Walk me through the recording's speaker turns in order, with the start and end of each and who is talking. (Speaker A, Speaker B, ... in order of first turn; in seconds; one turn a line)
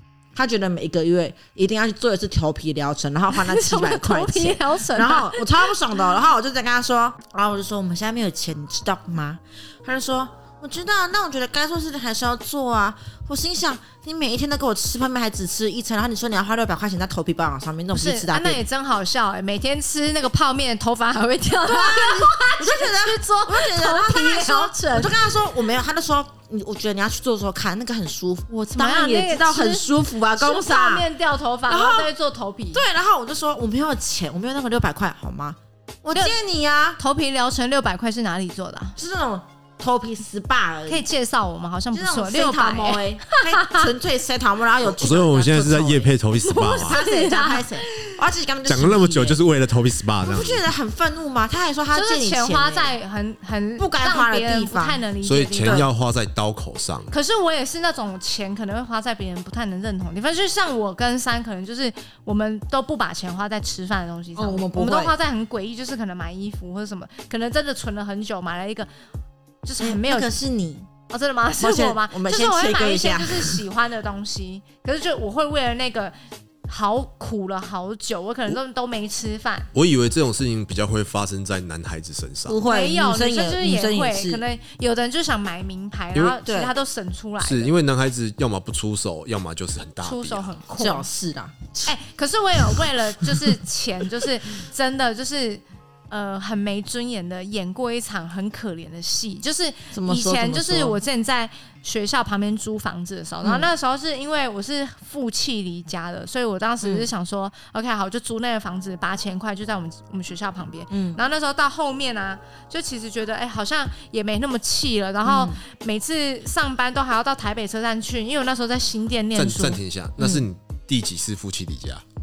Speaker A: 0.3-18.6
Speaker B: 3.3-5.7
Speaker B: 17.9-25.1
Speaker A: 21.6-31.1
Speaker B: 28.5-32.8
Speaker A: 31.7-32.1
Speaker A: 32.7-37.0
Speaker B: 37.0-39.0
Speaker A: 39.0-41.0
Speaker B: 40.9-43.9
Speaker A: 41.9-46.1
Speaker C: 44.8-47.0
Speaker B: 46.4-48.2
Speaker A: 46.7-49.4
Speaker C: 48.6-50.6
Speaker A: 50.2-52.9
Speaker B: 51.9-55.9
Speaker A: 53.8-55.0
Speaker C: 55.2-57.1
Speaker A: 55.6-55.9
Speaker B: 57.1-68.9
Speaker A: 64.3-65.1
Speaker B: 69.6-70.3
Speaker A: 69.8-70.9
Speaker B: 71.1-76.1
Speaker A: 71.6-73.6
Speaker B: 76.7-79.7
Speaker C: 79.7-82.6
Speaker A: 82.5-84.4
Speaker B: 82.7-87.7
Speaker A: 86.4-86.7
Speaker C: 87.4-90.5
Speaker B: 90.0-91.1
Speaker A: 90.8-91.9
Speaker B: 91.8-119.8
Speaker A: 99.9-101.0
Speaker A: 103.4-103.7
Speaker A: 106.8-107.1
Speaker A: 110.9-111.2
Speaker A: 115.2-115.6
Speaker C: 119.3-122.0
Speaker A: 120.2-120.4